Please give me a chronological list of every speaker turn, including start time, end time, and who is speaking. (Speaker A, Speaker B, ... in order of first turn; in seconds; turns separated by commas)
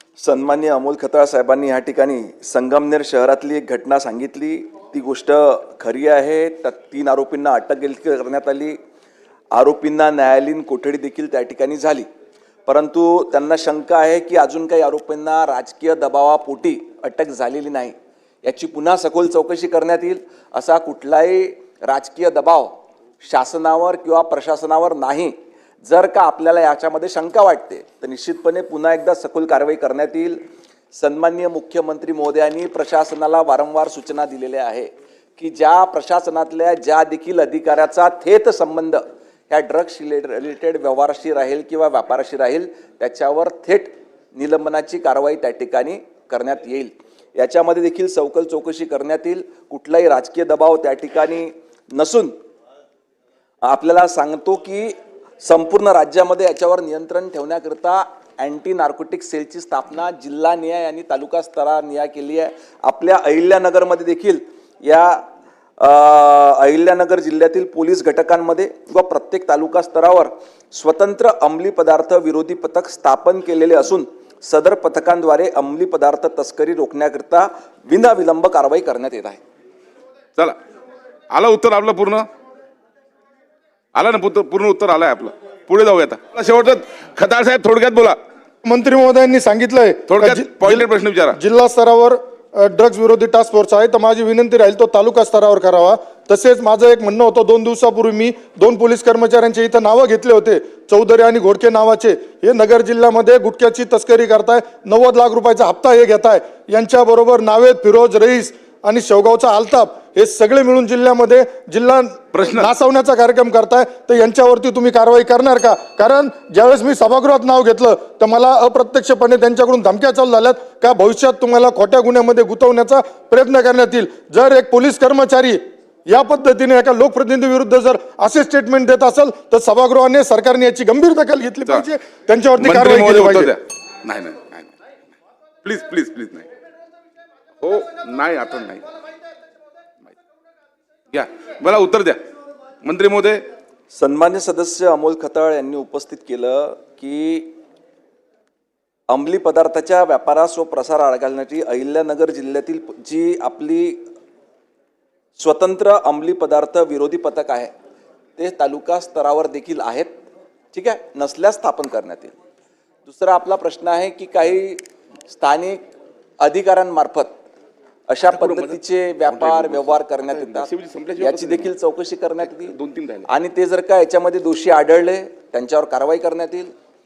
Speaker A: 0.2-8.8, Speaker A: 9.5-12.1, Speaker A: 12.7-30.4, Speaker A: 30.9-52.3, Speaker A: 53.7-65.2, Speaker A: 65.8-79.4, Speaker B: 81.3-82.3, Speaker B: 84.0-88.2, Speaker C: 88.6-133.5, Speaker B: 90.1-91.4, Speaker B: 112.3-112.7, Speaker B: 132.6-134.7, Speaker B: 135.6-136.5, Speaker B: 137.6-138.8, Speaker B: 141.1-142.2, Speaker B: 142.8-143.4, Speaker A: 143.9-147.5, Speaker A: 149.1-154.1, Speaker A: 155.4-157.7, Speaker A: 158.4-160.2, Speaker A: 160.7-162.3, Speaker A: 163.1-165.9, Speaker A: 166.4-167.4, Speaker A: 168.1-172.8, Speaker B: 168.2-171.7, Speaker B: 172.5-173.3, Speaker A: 173.3-176.7